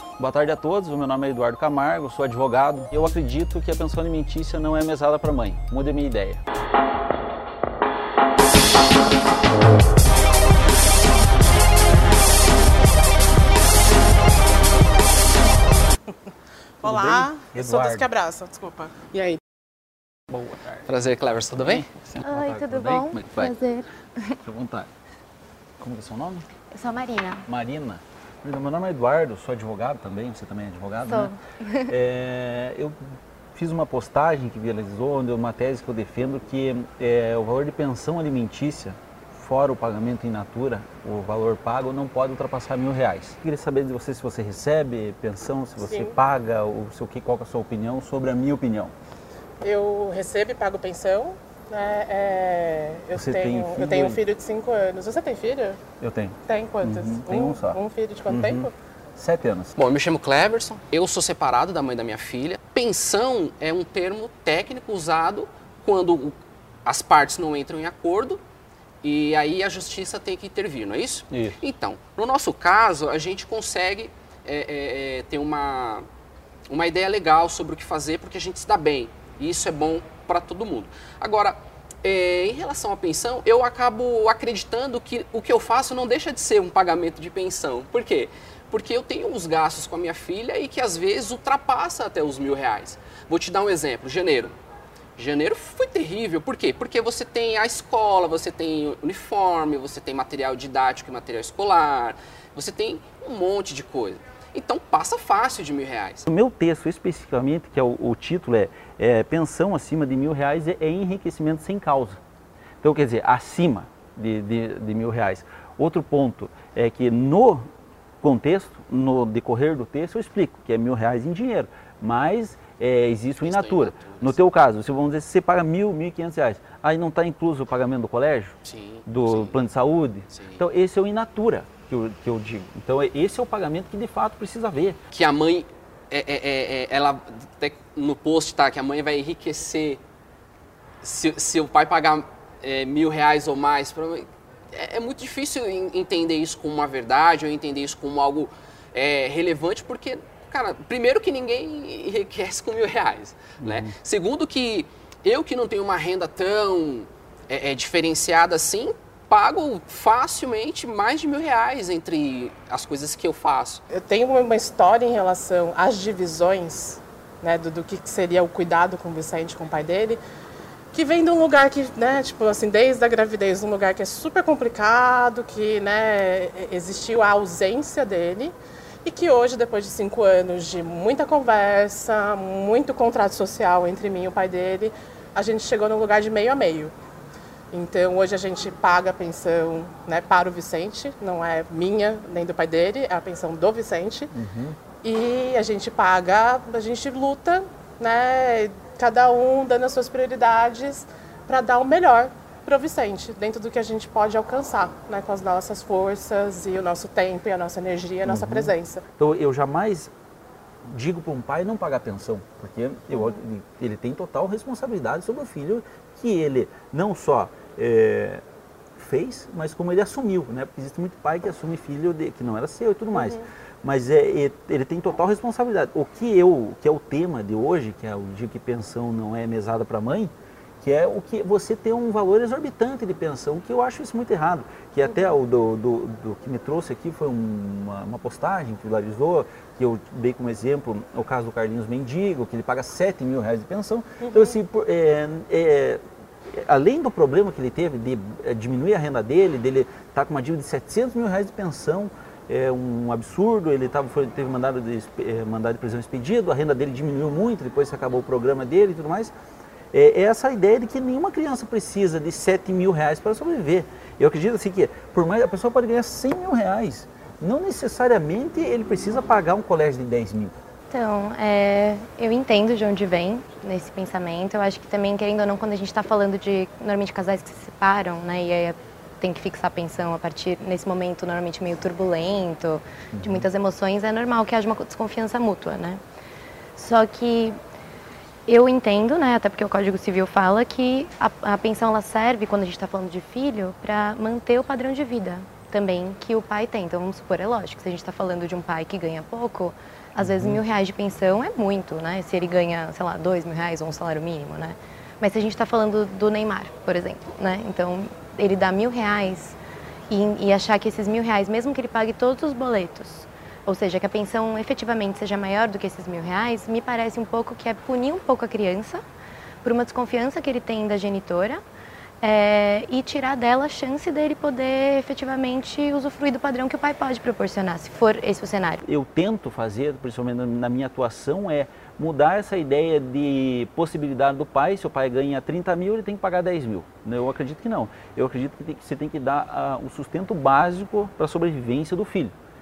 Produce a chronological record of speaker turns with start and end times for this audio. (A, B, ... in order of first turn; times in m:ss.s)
0:00.2-0:06.4 A
0:16.8-0:18.1 A
0:16.8-0:19.4 B
0:20.3-0:20.9 A
0:20.9-0:21.9 C
0:21.6-0:23.6 A
0:22.2-0:24.4 D
0:24.4-0:24.9 A
0:25.8-0:26.4 A
0:26.7-0:27.4 D
0:27.4-0:31.3 A
0:31.0-0:31.9 D
0:31.9-0:33.0 A
0:33.6-0:48.9 A
0:45.8-0:46.1 B
0:49.6-0:55.8 B
0:53.1-0:54.2 A
0:56.0-0:59.8 A
0:56.5-0:58.7 B
0:59.8-1:08.4 C
1:09.0-1:16.0 C
1:11.3-1:11.6 A
1:16.7-1:34.6 C
1:35.2-1:46.2 C
1:46.2-1:52.2 A
1:52.8-1:57.7 A
1:58.2-2:15.0 A
2:03.4-2:04.4 C
2:08.6-2:09.6 C
2:10.3-2:10.6 C
2:15.1-2:20.0 C
2:21.0-2:43.8 C
2:33.6-2:33.9 A
2:43.9-2:50.2 B
2:50.9-3:06.9 B
3:07.7-3:14.3 B
3:14.3-3:14.8 A
3:15.0-3:29.0 B
3:28.2-3:30.1 A
3:30.9-3:38.4 A
3:39.0-4:06.0 A
4:06.5-4:19.3 A
4:19.9-4:30.6 A
4:30.9-4:46.0 D
4:43.1-4:43.5 A
4:46.8-4:47.6 D
4:48.5-5:09.6 D
5:00.2-5:00.6 A
5:10.1-5:19.0 D
5:19.6-5:21.6 D
5:22.2-5:28.8 D
5:28.8-5:42.3 A